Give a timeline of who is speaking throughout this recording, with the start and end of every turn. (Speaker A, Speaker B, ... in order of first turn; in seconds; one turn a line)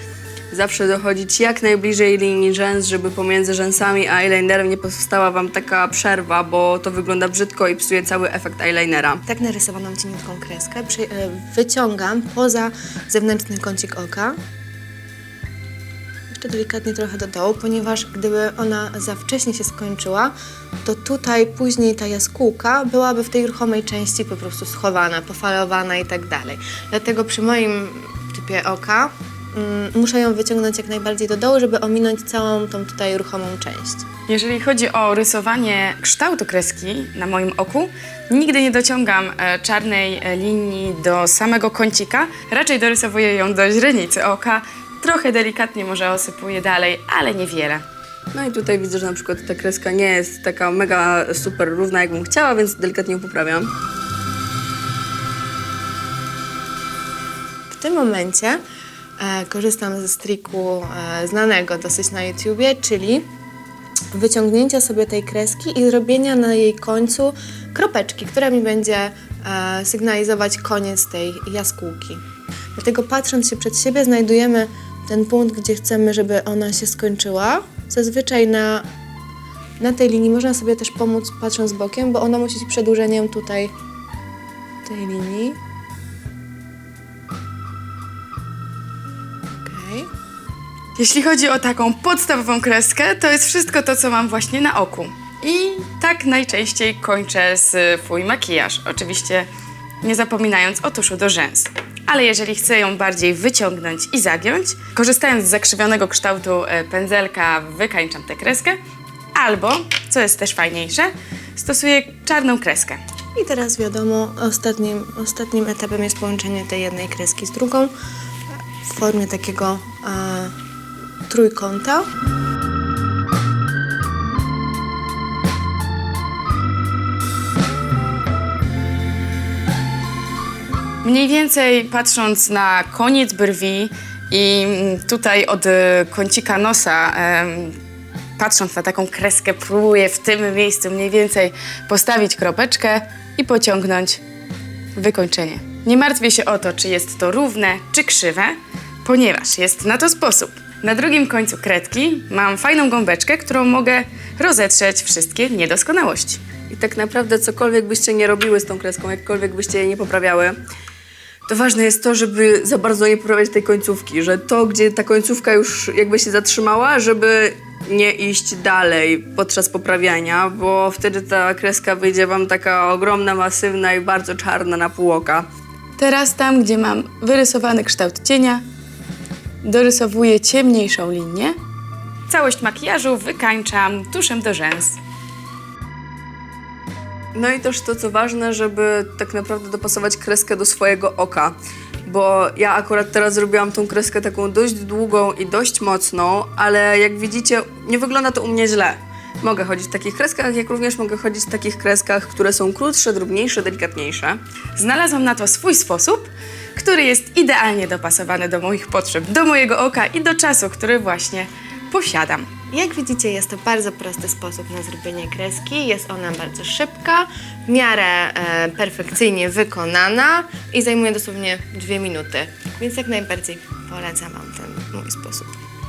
Speaker A: 0.5-9.2
Speaker B: 9.3-14.3
Speaker B: 16.3-20.3
Speaker B: 20.8-34.0
Speaker C: 34.3-47.8
Speaker A: 48.3-53.7
Speaker B: 57.7-58.6
Speaker B: 59.2-63.2
Speaker B: 64.1-72.2
Speaker B: 72.7-78.9
Speaker B: 79.8-83.7
Speaker B: 84.8-85.6
Speaker B: 89.6-90.1
Speaker C: 91.0-99.5
Speaker C: 100.0-108.8
Speaker C: 109.3-113.0
Speaker B: 113.3-117.9
Speaker B: 118.8-120.5
Speaker B: 121.3-122.1
Speaker C: 131.0-137.8
Speaker C: 138.4-144.2
Speaker C: 144.9-156.4
Speaker A: 156.7-160.6
Speaker A: 161.5-175.4
Speaker C: 176.0-178.6
Speaker C: 179.6-181.6
Speaker C: 182.3-185.0
Speaker A: 187.3-191.5
Speaker A: 192.1-204.4
Speaker C: 204.8-212.4
Speaker B: 212.7-225.6